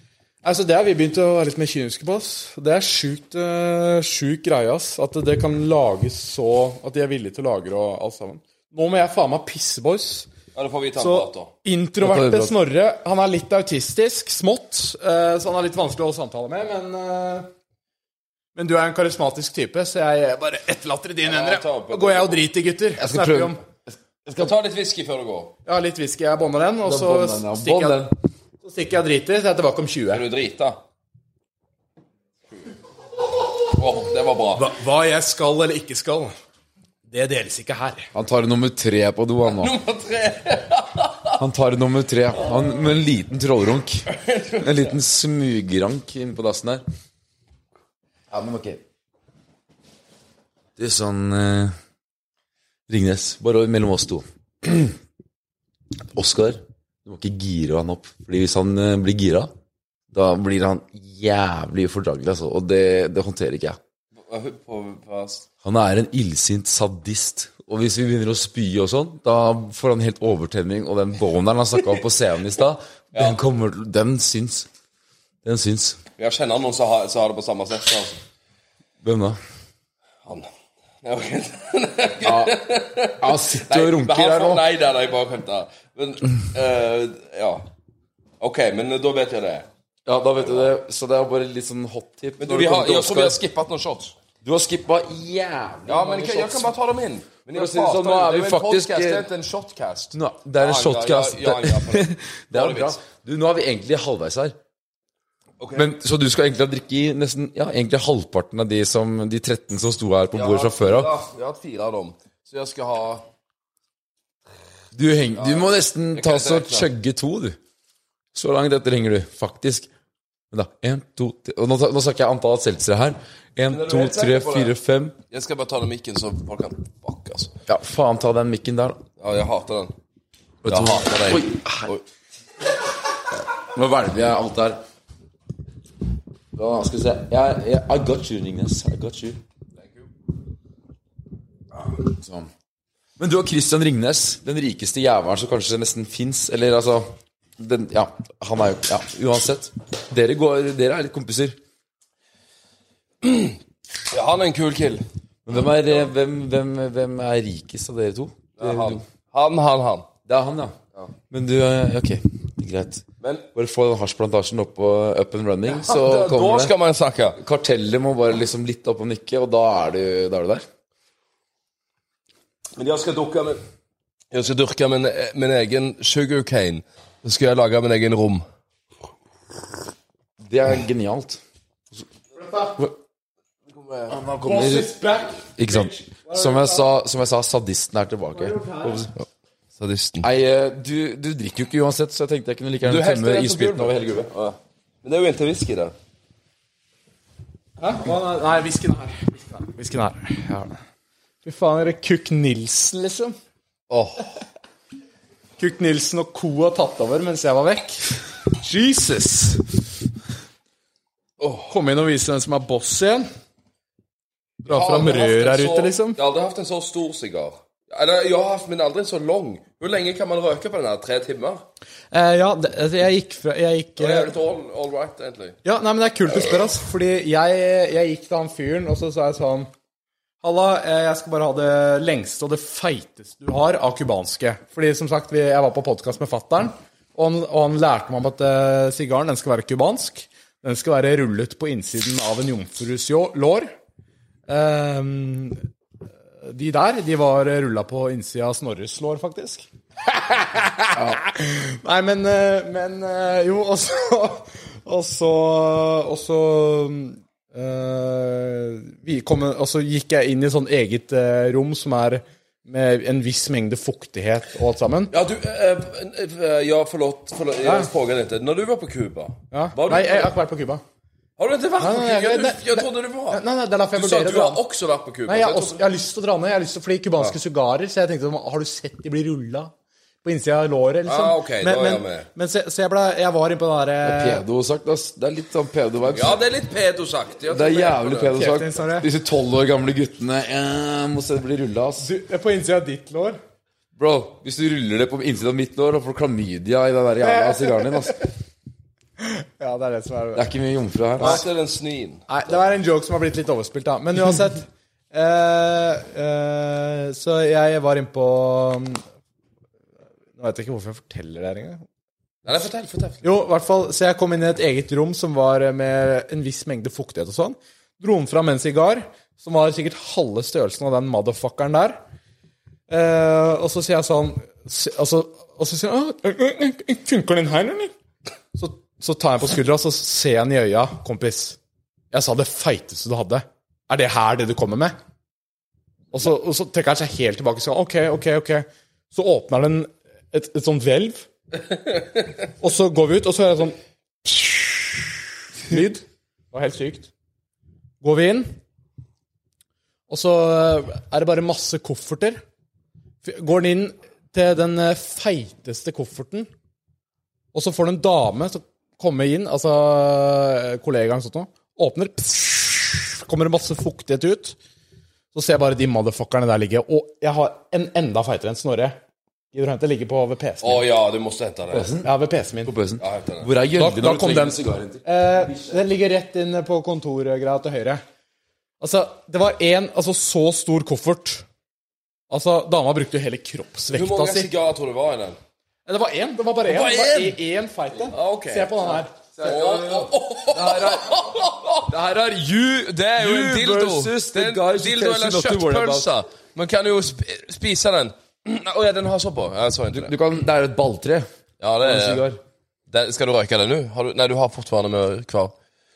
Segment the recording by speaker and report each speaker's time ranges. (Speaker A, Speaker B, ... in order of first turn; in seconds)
Speaker A: 0.4-10.3, 11.0-17.5, 18.6-23.6, 25.7-28.1, 28.6-30.2, 34.5-36.4, 37.1-38.1, 182.4-182.8, 184.4-186.9, 188.3-189.1, 197.8-200.8, 201.4-203.4, 205.6-209.7, 211.7-213.3, 214.6-216.2, 222.1-224.3, 225.7-229.7, 230.4-243.7, 244.5-245.6, 246.4-265.1, 267.6-267.9, 269.5-270.8, 271.8-274.6, 275.3-279.7, 280.2-284.4, 288.3-289.1, 292.0-293.4, 297.2-298.2, 299.2-300.5, 302.3-309.0, 310.4-311.9, 313.2-322.0, 322.9-327.9, 328.6-331.6, 332.1-335.0, 336.1-341.3, 342.6-345.0, 345.6-347.1, 348.0-348.5, 350.1-352.4, 353.2-356.5, 357.5-364.6, 365.3-369.0, 369.5-370.9, 372.0-372.7, 373.8-378.0, 378.8-381.4, 382.3-384.5, 385.9-389.6
Speaker B: 10.6-11.5, 21.3-22.5, 24.4-25.6, 30.1-30.8, 33.7-34.7, 39.4-41.4, 44.1-45.0, 64.3-65.5, 73.1-73.4, 76.2-78.2, 81.0-87.7, 88.4-89.7, 90.4-90.7, 92.4-94.2, 95.9-103.0, 105.6-105.9, 110.4-113.2, 115.4-116.9, 123.7-124.7, 125.3-127.5, 129.2-129.9, 130.7-132.0, 139.8-140.1, 153.2-153.6, 154.1-155.0, 158.6-160.1, 165.7-167.4, 172.8-173.6, 174.3-178.4, 183.7-184.2, 189.8-190.3, 192.8-195.9, 203.9-204.3, 211.4-211.7, 214.7-221.6, 224.0-225.6, 265.1-270.3, 271.4-273.4, 273.9-275.8, 281.1-282.3, 286.1-288.4, 301.2-302.3, 312.4-313.2, 370.6-371.9, 373.0-373.5, 383.9-385.4, 386.7-387.4, 388.1-388.9, 389.4-391.9, 393.0-400.1, 401.6-402.3, 402.9-405.5
Speaker C: 12.0-12.6, 23.0-23.6, 26.8-28.1, 38.1-39.8, 41.4-44.1, 44.6-46.8, 48.3-48.8, 50.8-51.8, 52.9-55.0, 56.1-59.5, 60.1-63.8, 65.6-74.7, 75.4-76.0, 79.0-79.4, 82.2-82.6, 83.2-84.7, 90.1-93.4, 94.4-96.7, 97.5-99.3, 100.1-104.6, 105.8-111.1, 114.9-117.6, 118.3-119.9, 120.5-125.2, 127.7-129.0, 130.6-131.9, 133.6-134.8, 136.5-139.4, 141.8-142.5, 143.2-151.6, 155.5-159.0, 160.3-160.8, 161.3-166.7, 167.4-170.7, 180.4-181.4, 184.1-184.9, 185.6-189.1, 190.2-194.3, 250.9-251.2, 284.0-286.4, 287.5-292.1, 294.0-298.3, 300.4-301.4, 371.7-372.1, 372.6-375.0, 389.4-396.1, 399.9-401.3, 401.8-402.4